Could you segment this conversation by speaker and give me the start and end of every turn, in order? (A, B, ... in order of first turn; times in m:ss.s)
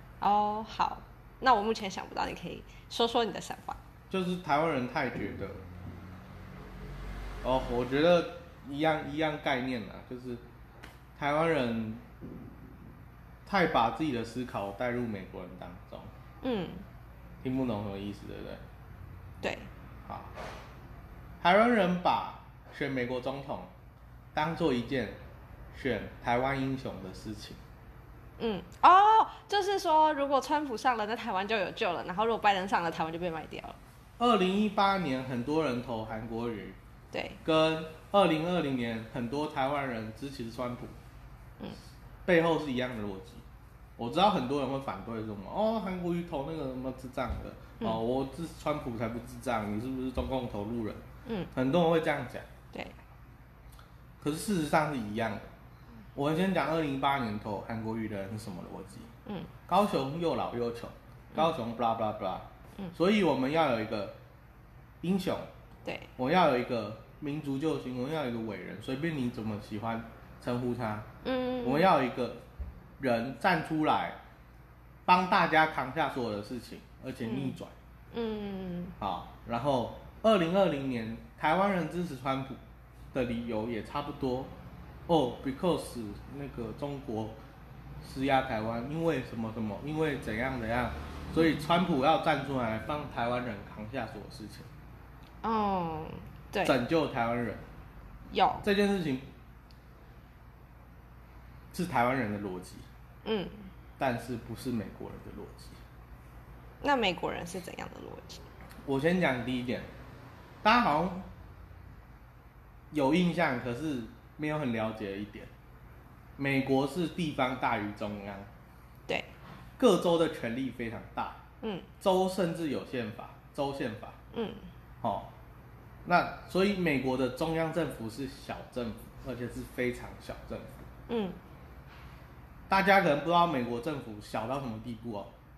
0:00.2-0:03.8 A
0:04.1-0:05.6 B
0:07.4-0:10.4 B
0:11.2-0:12.0 B
0:13.4-0:16.1 B
0:16.4-0:16.8 A
0:17.4-0:18.6 B
0:19.4-0:19.7 A
0:20.1-0:20.3 B
0:21.4-0:23.7 B
0:24.3-0:25.2 B
0:25.7-0:27.6 B
0:28.4-0:33.8 A
0:34.2-0:36.8 B
0:37.1-0:37.4 A
0:37.4-0:41.0 B
0:42.3-0:43.4 B
0:44.0-0:52.5 B
0:51.2-0:51.5 A
0:52.7-0:53.0 A
0:54.2-0:55.4 B
0:56.2-0:59.1 B
0:59.3-0:59.5 A
0:59.7-1:04.2 B
1:05.0-1:05.5 B
1:06.2-1:11.1 B
1:11.2-1:11.9 A
1:11.6-1:12.4 B
1:13.0-1:14.2 B
1:15.1-1:17.7 B
1:17.2-1:17.6 A
1:18.1-1:19.0 A
1:19.0-1:22.6 B
1:23.1-1:24.5 B
1:25.1-1:27.4 B
1:28.0-1:34.7 B
1:35.4-1:36.8 A
1:36.6-1:37.7 B
1:38.3-1:38.6 A
1:38.6-1:39.3 B
1:41.7-1:42.9 B
1:43.2-1:43.7 A
1:44.0-1:45.8 B
1:46.8-1:48.4 A
1:48.8-1:49.9 B
1:50.6-1:51.3 B
1:52.9-1:55.5 B
1:56.4-1:58.5 B
1:59.8-2:01.4 B
2:01.6-2:01.9 A
2:02.0-2:04.2 B
2:04.3-2:04.7 A
2:05.0-2:05.3 B
2:06.0-2:10.9 B
2:11.1-2:11.4 A
2:12.7-2:15.3 B